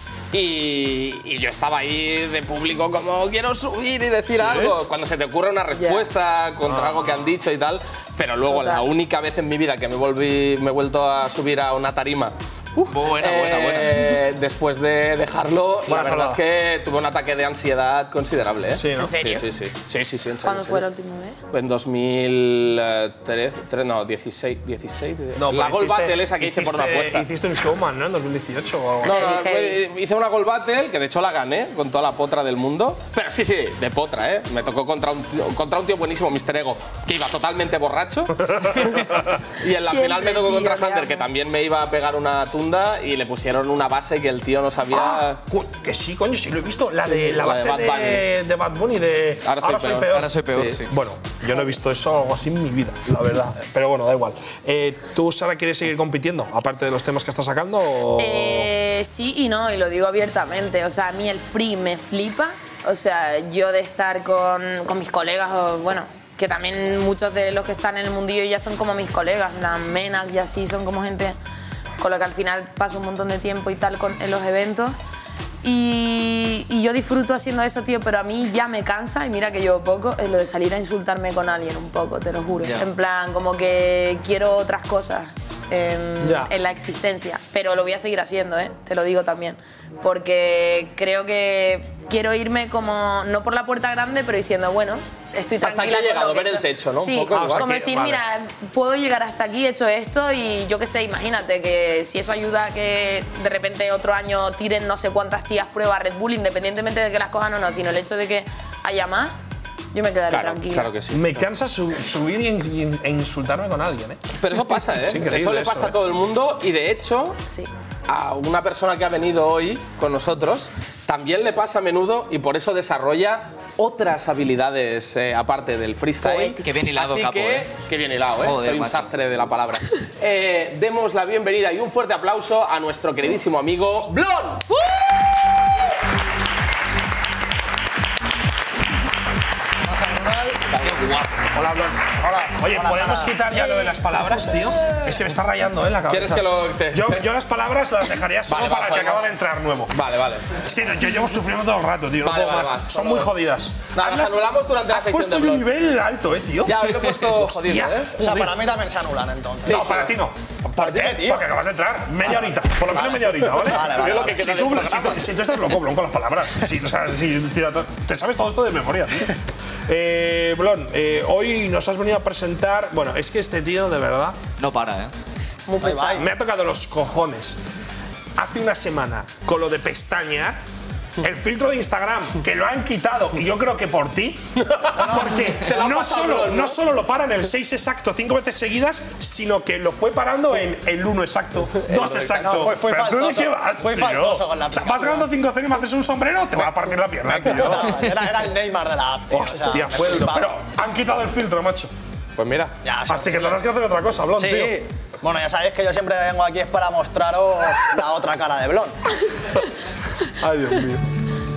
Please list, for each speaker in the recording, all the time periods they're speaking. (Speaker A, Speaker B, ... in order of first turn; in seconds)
Speaker A: 0.3-20.8, 21.5-27.3, 29.0-45.4, 47.0-48.3, 49.5-50.8, 95.6-97.7, 110.3-111.5, 114.4-117.4, 118.1-134.7, 140.7-141.5, 146.1-147.3, 148.5-149.4, 149.9-150.5, 152.2-153.3, 153.9-155.7, 156.7-158.1, 159.7-160.1, 163.6-165.4, 184.6-186.8, 191.9-192.6, 202.4-202.8
Speaker B: 4.3-4.8, 6.7-7.0, 15.9-16.4, 18.8-19.2, 25.4-29.3, 38.5-39.2, 44.9-58.7, 86.2-86.5, 97.3-98.2, 111.1-114.2, 114.9-116.0, 141.5-150.0, 150.6-158.6, 159.7-169.3, 169.9-174.4, 176.1-177.6, 178.4-180.6, 181.2-198.1, 199.3-201.9, 203.1-204.8, 210.4-211.0
Speaker C: 5.8-6.1, 8.5-8.8, 19.0-19.4, 20.4-21.4, 29.0-29.8, 39.8-41.2, 58.2-71.4, 72.0-75.0, 75.6-109.3, 109.9-110.9, 126.2-126.6, 175.7-176.3
Speaker D: 12.9-14.1, 50.1-50.9, 126.6-127.7, 128.4-129.1, 174.6-175.1
Speaker E: 139.8-140.7, 142.2-143.4, 158.2-159.9, 160.8-161.5, 162.3-164.6, 175.8-176.3, 185.0-185.5, 192.2-195.3, 196.6-200.6, 202.8-203.6, 204.3-208.9